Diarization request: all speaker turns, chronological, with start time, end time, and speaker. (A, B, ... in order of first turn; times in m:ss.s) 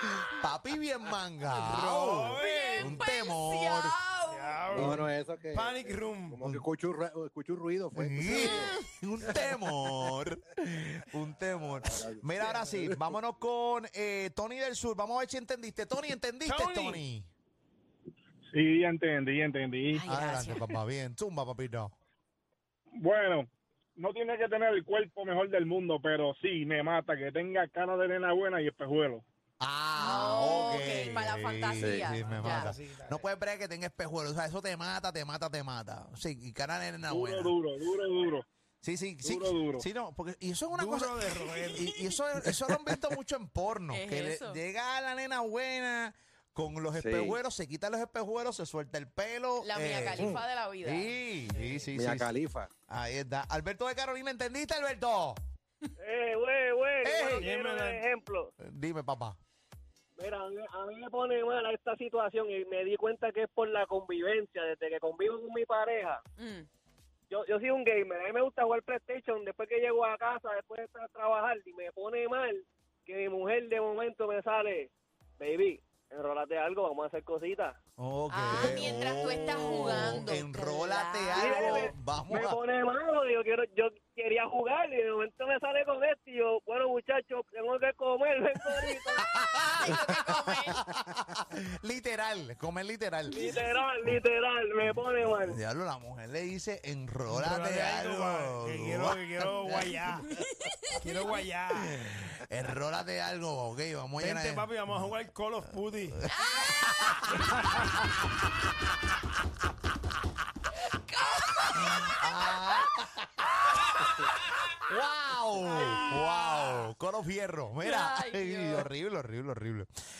0:00.3-0:04.0 A
0:01.6-0:03.0 B
0:02.3-0:04.8 C
0:04.3-0:06.4 B
0:04.7-0:08.7 D
0:04.7-0:05.1 A
0:07.9-0:17.3 A
0:08.2-0:08.8 C
0:09.3-0:09.6 D
0:11.8-0:13.1 D
0:16.4-0:17.0 B
0:18.5-0:20.0 E
0:19.9-0:20.7 C
0:20.1-0:21.9 A
0:23.0-0:23.4 E
0:24.0-0:29.2 E
0:29.6-0:37.5 A
0:30.0-0:32.7 C
0:32.0-0:33.3 B
0:37.1-0:38.4 E
0:38.8-0:52.3 A
0:39.2-0:39.8 E
0:40.7-0:41.9 B
0:43.9-0:44.6 C
0:46.9-0:47.4 D
0:49.6-0:51.1 C
0:51.6-0:51.8 B
0:51.9-0:52.7 D
0:52.9-0:55.4 A
0:56.0-0:58.5 F
0:57.0-0:57.5 A
0:57.4-0:58.0 B
0:58.6-0:59.4 A
1:00.2-1:06.2 F
1:06.4-1:06.7 C
1:07.3-1:17.8 F
1:18.0-1:22.6 A
1:18.3-1:21.9 C
1:21.4-1:29.2 F
1:29.2-1:33.4 A
1:29.8-1:30.8 C
1:33.3-1:35.6 F
1:35.2-1:40.0 A
1:37.3-1:40.3 B
1:40.4-1:41.0 C
1:40.9-1:42.0 B
1:41.7-1:44.7 A
1:44.2-1:46.2 B
1:46.2-1:47.5 A
1:46.3-1:47.4 C
1:50.8-1:52.8 C
1:51.8-1:54.1 A
1:54.8-1:59.9 A
1:55.6-1:56.9 C
1:57.8-1:58.9 C